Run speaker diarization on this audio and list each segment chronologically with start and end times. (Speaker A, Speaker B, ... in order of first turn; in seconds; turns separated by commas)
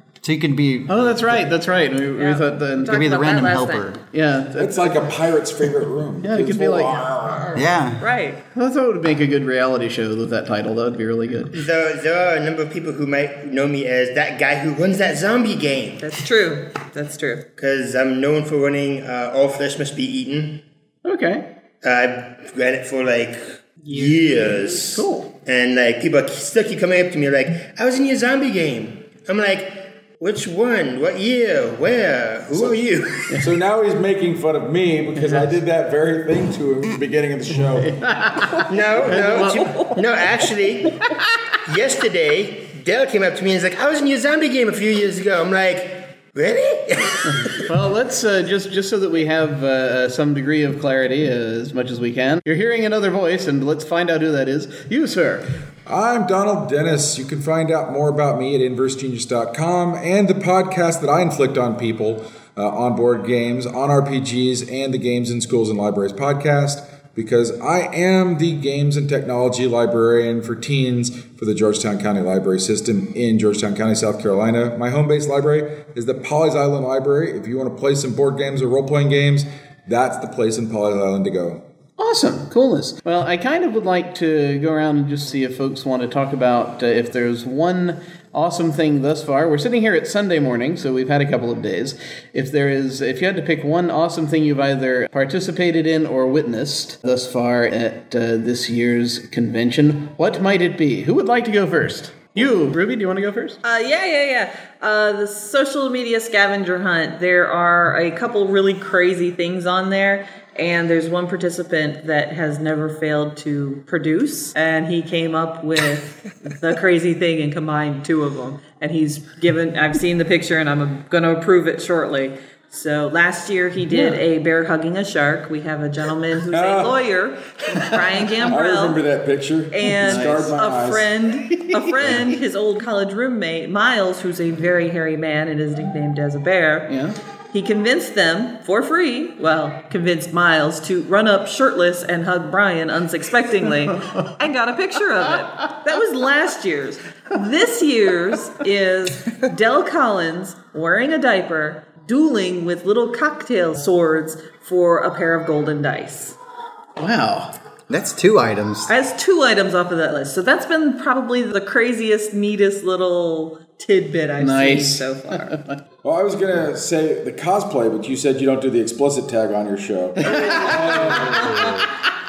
Speaker A: 0.2-1.4, Speaker B: 0.9-3.0, Speaker C: 2.1-3.9, Speaker A: 2.9-4.0, Speaker B: 4.1-5.3, Speaker D: 4.6-7.6, Speaker B: 6.2-7.4, Speaker A: 7.5-8.1, Speaker C: 8.0-8.4, Speaker B: 8.5-11.5, Speaker E: 11.5-16.1, Speaker C: 16.0-17.4, Speaker E: 17.6-20.6, Speaker B: 21.0-21.4, Speaker E: 21.8-33.4, Speaker C: 23.9-24.7, Speaker B: 24.8-25.3, Speaker D: 32.5-32.9, Speaker B: 33.3-33.6, Speaker D: 33.4-37.9, Speaker B: 35.1-35.5, Speaker B: 37.6-40.1, Speaker E: 38.6-41.0, Speaker B: 41.1-41.3, Speaker E: 41.7-47.7, Speaker B: 47.3-55.4, Speaker D: 55.9-81.6, Speaker B: 82.0-103.6, Speaker C: 103.6-129.0, Speaker B: 123.9-124.2, Speaker D: 126.5-127.0, Speaker D: 128.5-131.1, Speaker C: 129.7-136.9, Speaker B: 130.0-130.6, Speaker B: 136.9-137.2, Speaker C: 137.5-156.3, Speaker B: 157.0-157.5, Speaker A: 157.9-158.9, Speaker C: 158.9-165.6, Speaker B: 164.4-165.8, Speaker D: 166.0-171.8, Speaker B: 170.2-171.9, Speaker A: 171.3-171.7